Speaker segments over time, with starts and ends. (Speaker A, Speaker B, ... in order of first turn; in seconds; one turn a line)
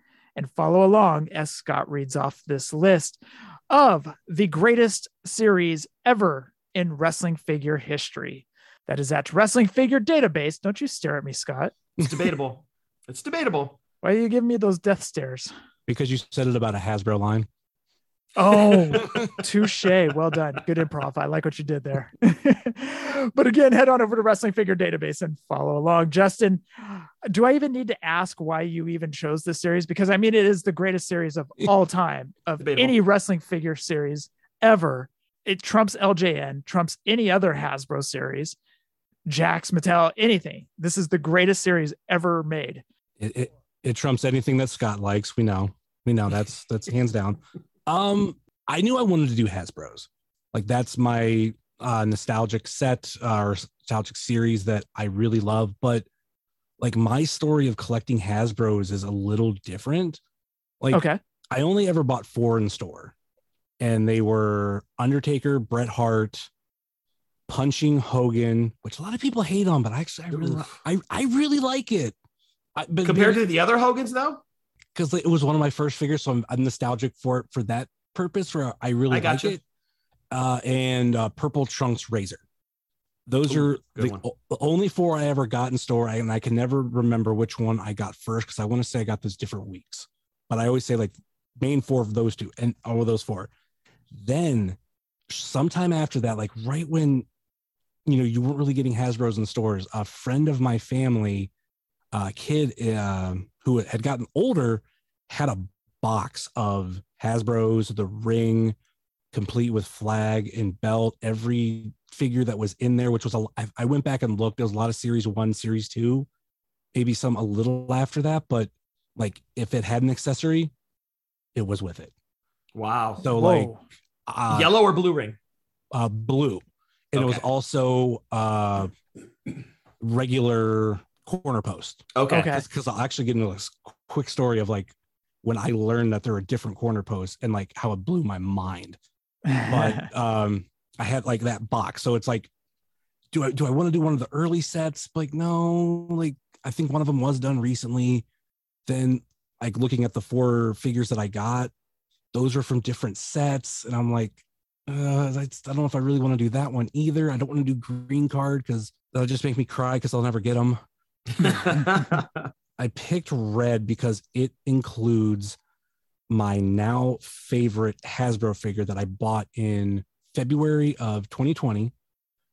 Speaker A: 0.4-11.8
Speaker B: 12.0-13.8
Speaker A: 14.0-15.5
Speaker C: 15.9-17.5
Speaker A: 18.4-38.6
Speaker B: 18.6-19.2
Speaker B: 32.6-33.0
Speaker A: 39.3-42.8
Speaker C: 43.2-56.1
Speaker C: 56.8-60.2
Speaker C: 60.8-63.1
Speaker A: 60.9-61.2
Speaker C: 63.8-66.5
Speaker C: 67.5-72.2
Speaker B: 70.3-70.7
Speaker C: 72.8-73.4
Speaker B: 73.0-74.4
Speaker C: 75.0-79.6
Speaker B: 79.1-79.6
Speaker C: 80.3-82.4
Speaker C: 83.3-93.5
Speaker B: 83.5-84.2
Speaker C: 94.1-94.8
Speaker C: 95.3-97.3
Speaker C: 98.1-101.5
Speaker C: 102.1-108.8
Speaker C: 109.3-116.3
Speaker C: 116.9-120.7
Speaker C: 121.5-122.1
Speaker B: 122.8-123.2
Speaker C: 123.2-123.7
Speaker A: 123.2-123.8
Speaker C: 124.3-124.7
Speaker B: 124.5-125.4
Speaker C: 125.9-128.9
Speaker B: 127.2-127.4
Speaker C: 130.0-139.0
Speaker B: 132.2-132.5
Speaker A: 132.3-132.6
Speaker A: 139.5-140.1
Speaker C: 139.7-142.5
Speaker C: 143.3-148.2
Speaker C: 148.9-151.7
Speaker C: 152.3-160.8
Speaker B: 161.4-162.5
Speaker C: 161.4-161.7
Speaker C: 162.8-165.6
Speaker C: 166.3-171.9